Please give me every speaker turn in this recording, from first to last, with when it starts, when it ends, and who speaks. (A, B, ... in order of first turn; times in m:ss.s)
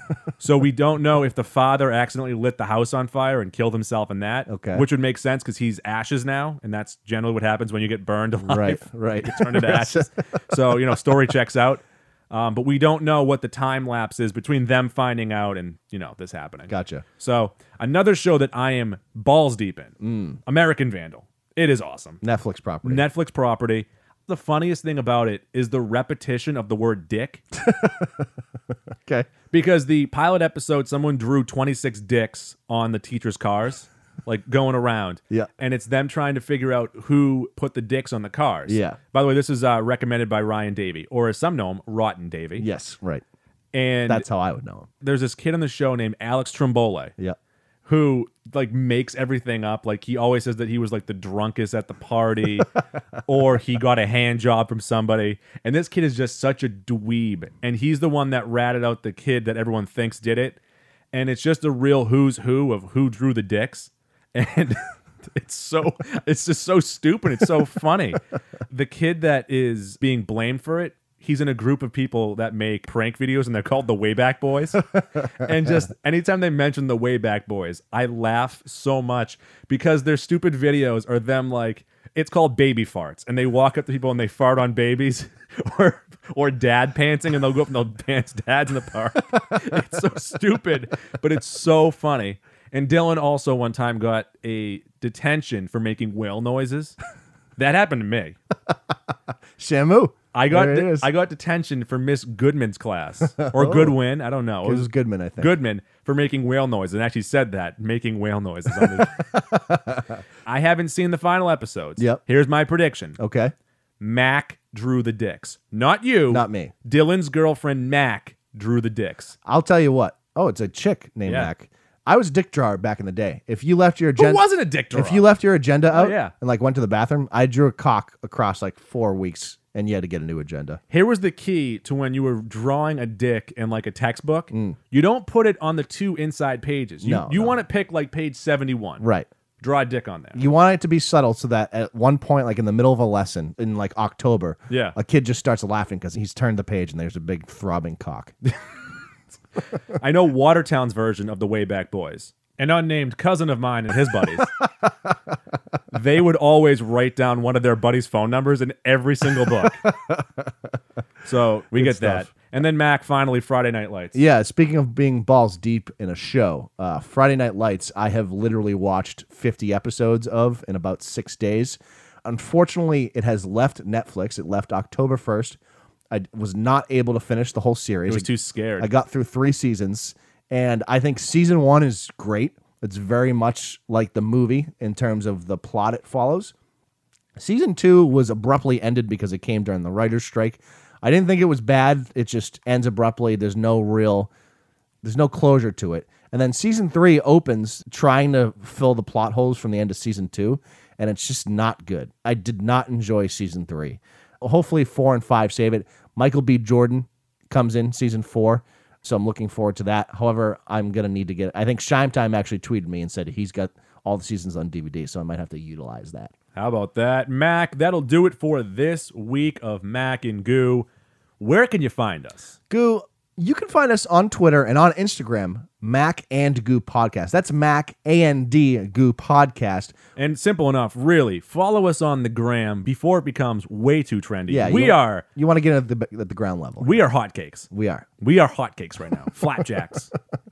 0:00.4-0:22.2 A
0:04.5-0:04.8 B
0:08.4-0:10.8 B
0:16.7-0:17.0 B
0:20.0-0:20.4 B
0:22.2-0:23.1 B
0:22.8-0:27.4 A
0:27.5-0:28.3 B
0:29.0-0:29.3 B
0:29.5-0:42.7 A
0:38.7-0:39.0 B
0:42.6-0:43.2 B
0:43.7-0:44.3 A
0:44.1-0:44.9 B
0:45.0-0:47.1 A
0:47.8-0:52.7 A
0:53.2-1:00.6 A
1:01.1-1:08.2 A
1:08.7-1:37.0 A
1:37.6-1:38.4 A
1:39.6-1:41.1 B
1:40.3-1:49.2 A
1:43.4-1:44.0 B
1:44.6-1:45.6 B
1:48.7-1:50.2 B
1:50.4-1:53.2 A
1:53.2-1:53.5 B
1:54.0-1:59.3 A
1:56.3-1:56.7 B
1:59.4-2:10.8 B
2:04.2-2:05.3 A
2:05.9-2:06.3 A
2:10.9-2:19.0 A
2:14.5-2:14.8 B
2:17.0-2:17.6 B
2:19.0-2:19.3 B
2:19.6-2:20.4 A
2:20.4-2:28.4 B
2:24.7-2:25.0 A
2:30.0-2:34.5 A
2:35.9-2:39.9 A
2:39.8-2:40.2 B
2:41.2-2:44.2 A
2:41.7-2:42.3 B
2:44.1-2:55.6 B
2:56.1-3:06.5 B
2:58.1-2:58.9 A
3:07.4-3:14.3 B
3:15.0-3:36.3 B
3:36.6-3:40.9 A
3:41.4-3:42.6 A
3:42.7-3:49.9 B
3:50.2-3:55.2 A
3:54.5-3:57.0 B
3:56.8-3:57.7 A
3:57.7-3:58.1 B
3:58.2-4:00.1 A